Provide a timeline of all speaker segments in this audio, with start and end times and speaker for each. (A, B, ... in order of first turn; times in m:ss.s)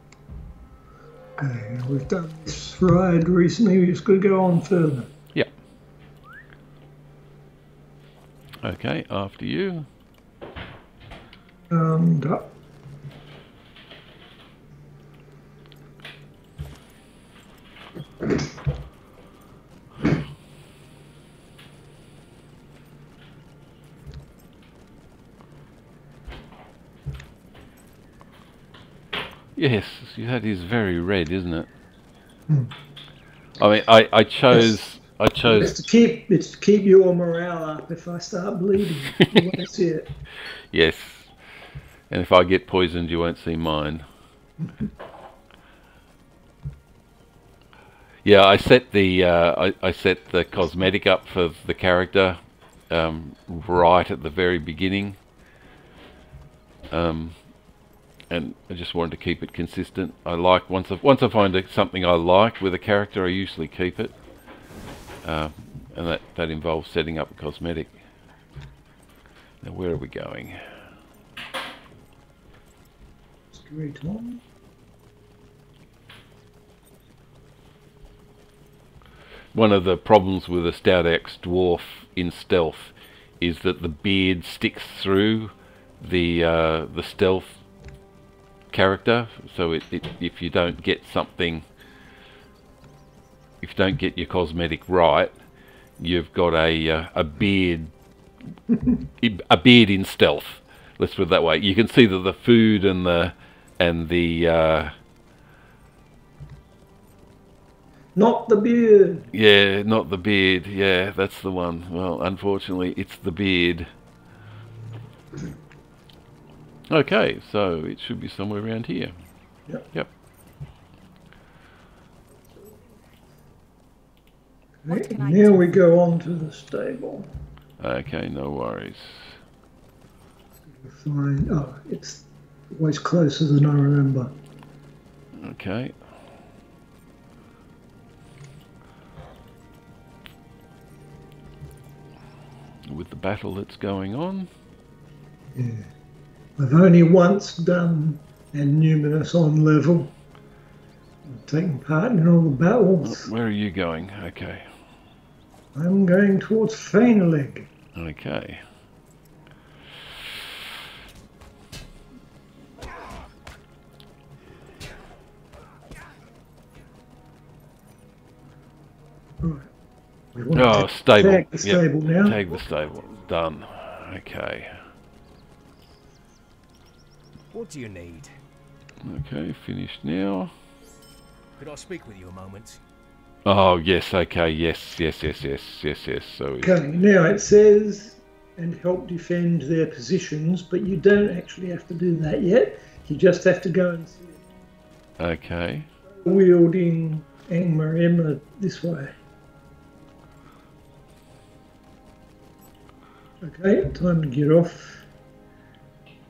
0:01.4-0:05.1 A
0:08.6-0:09.9 B
0:11.7-0:12.5 A
0:29.6-0:31.7 B
0:33.6-0:35.8 B
0:34.5-0:34.8 A
0:35.4-0:40.1 A
0:39.0-0:39.5 B
0:40.7-0:41.3 B
0:42.1-0:44.1 B
0:48.2-0:55.2 B
0:56.9-0:57.4 B
0:58.3-1:04.2 B
1:05.2-1:08.0 B
1:09.6-1:10.6 B
1:13.5-1:14.4 A
1:19.5-1:27.6 B
1:28.7-1:31.7 B
1:33.6-1:35.4 B
1:36.0-1:37.9 B
1:39.2-1:44.9 B
1:48.2-1:49.3 A
1:49.3-1:53.9 B
1:56.9-1:59.1 B
2:04.8-2:07.3 A
2:07.8-2:09.4 B
2:10.7-2:14.3 A
2:15.4-2:16.0 B
2:22.9-2:24.5 B
2:25.5-2:25.9 A
2:26.6-2:30.1 A
2:31.3-2:33.3 A
2:33.0-2:34.7 B
2:35.8-2:37.7 A
2:38.0-2:38.6 B
2:49.4-2:49.7 A
2:50.4-2:52.4 A
2:50.6-2:54.8 B
2:52.4-2:53.4 C
2:57.5-2:58.3 C
2:59.0-3:00.5 B
3:01.6-3:02.8 C
3:03.5-3:06.8 B
3:06.6-3:14.4 A
3:15.2-3:15.9 B
3:16.2-3:19.2 A
3:23.4-3:25.0 A